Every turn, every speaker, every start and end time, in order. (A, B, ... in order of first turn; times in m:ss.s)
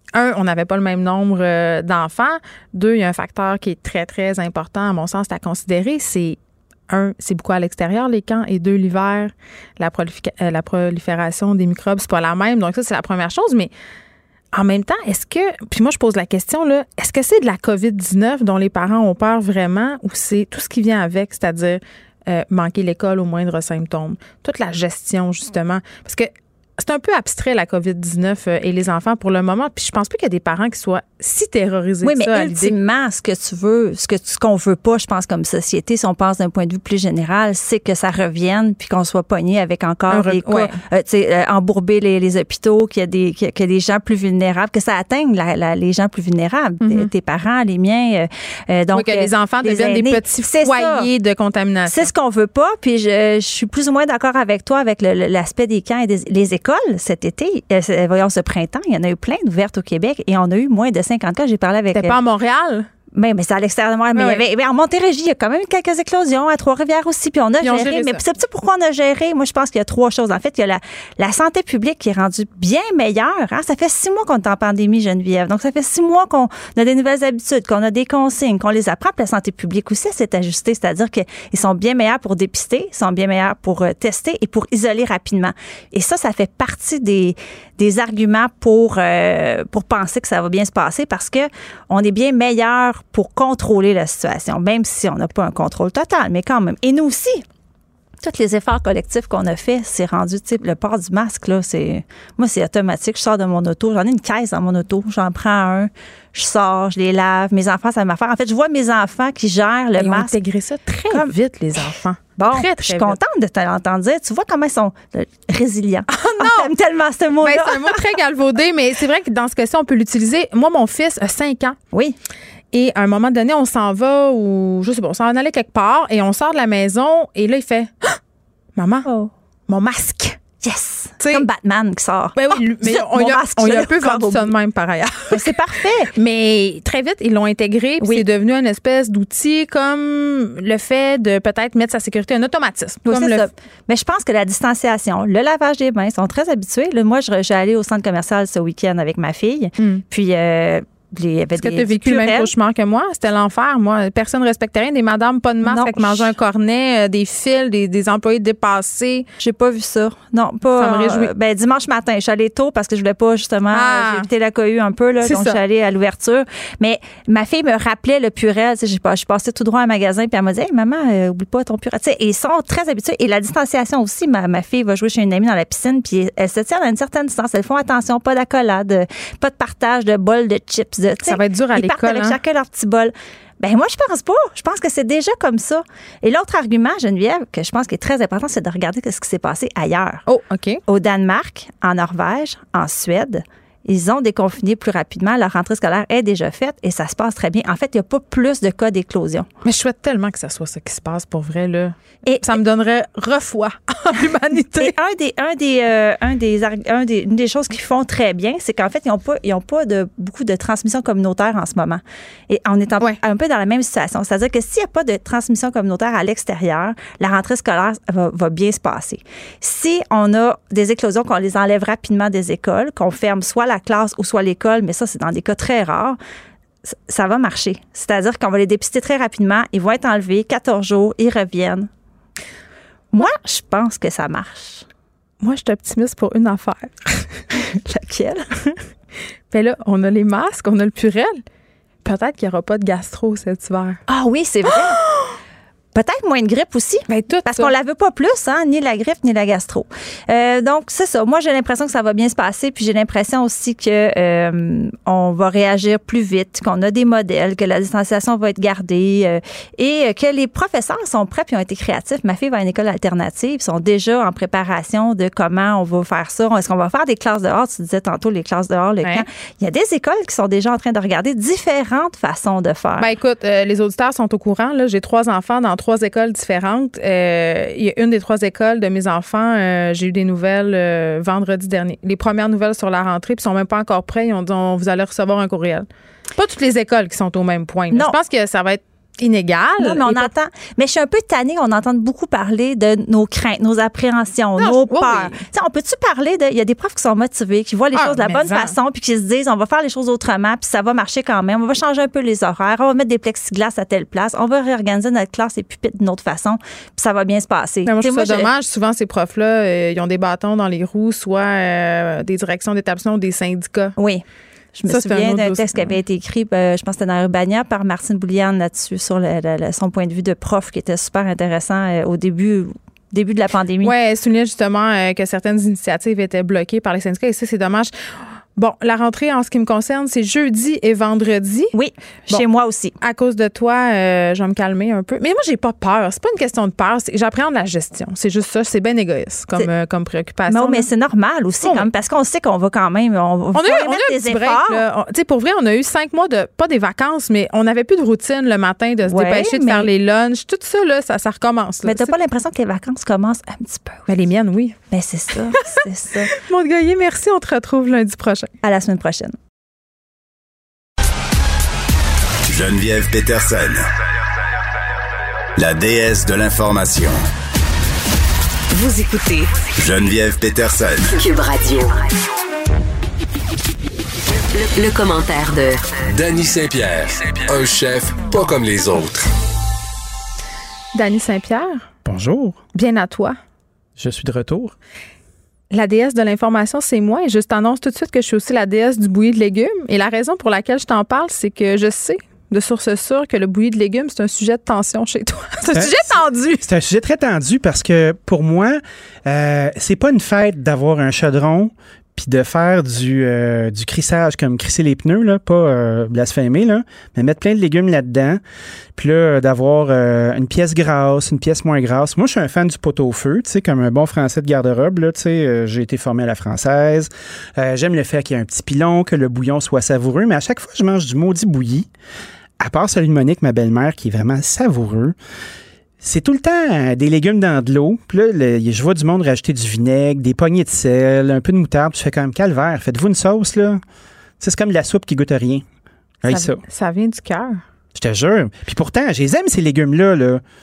0:00.1-0:13.7 A
0:14.5-0:32.7 A
0:32.0-0:51.1 B
0:40.1-0:40.7 A
0:48.9-0:52.1 A
0:51.9-1:02.2 B
1:01.9-1:02.9 A
1:03.1-1:37.4 B
1:04.2-1:04.4 A
1:07.6-1:08.2 A
1:38.2-1:50.4 B
1:50.0-1:53.2 A
1:52.4-1:58.2 B
1:56.1-1:56.7 A
1:57.4-2:01.8 A
2:02.7-2:08.2 A
2:08.8-2:09.1 A
2:09.1-2:09.3 B
2:09.7-2:10.4 A
2:10.5-2:14.5 B
2:11.2-2:11.5 A
2:12.4-2:15.5 A
2:15.3-2:16.1 B
2:16.1-2:23.5 A
2:18.0-2:18.3 B
2:23.0-2:32.5 B
2:31.6-2:39.3 A
2:35.6-2:36.3 B
2:39.4-3:10.2 B
2:40.8-2:41.3 A
2:43.7-2:44.2 A
2:45.2-2:45.6 A
3:01.2-3:02.4 A
3:10.3-3:10.8 A
3:10.9-3:19.5 B
3:19.6-3:25.0 A
3:22.3-3:22.6 B
3:24.8-3:46.2 B
3:46.8-3:51.9 B
3:53.1-3:54.9 B
3:55.4-3:57.6 A
3:57.6-3:58.4 B
3:59.5-4:01.4 A
4:02.0-4:04.0 A
4:04.1-4:05.0 B
4:04.7-4:05.3 A
4:05.9-4:33.1 B
4:07.1-4:07.7 A
4:33.0-4:50.3 A
4:47.9-4:48.2 B
4:49.8-5:08.5 B
4:54.6-4:55.4 A
4:58.0-4:58.7 A
5:07.9-5:14.0 A
5:14.0-5:23.9 B
5:14.9-5:16.0 A
5:23.8-5:27.9 A
5:28.6-5:31.7 A
5:31.7-5:33.0 B
5:33.0-5:40.9 A
5:40.5-5:44.8 B
5:43.6-5:52.1 A
5:49.0-5:49.9 B
5:51.8-5:54.1 B
5:54.1-5:54.8 A
5:54.9-5:56.3 B
5:56.3-5:58.5 A
5:58.6-5:59.3 B
6:02.5-6:03.9 C
6:05.6-6:07.2 C
6:08.7-6:09.6 D
6:09.8-6:11.1 C
6:11.1-6:12.1 D
6:14.5-6:15.9 D
6:16.1-6:19.3 E
6:20.9-6:21.9 A
6:22.0-6:22.6 F
6:22.7-6:23.4 A
6:24.0-6:24.8 F
6:25.7-6:36.6 A
6:35.7-6:48.4 F
6:49.0-7:01.9 F
7:02.6-7:05.2 F
7:06.0-7:13.8 F
7:14.4-7:15.7 F
7:16.2-7:16.6 F
7:16.3-7:17.6 A
7:17.9-7:20.4 F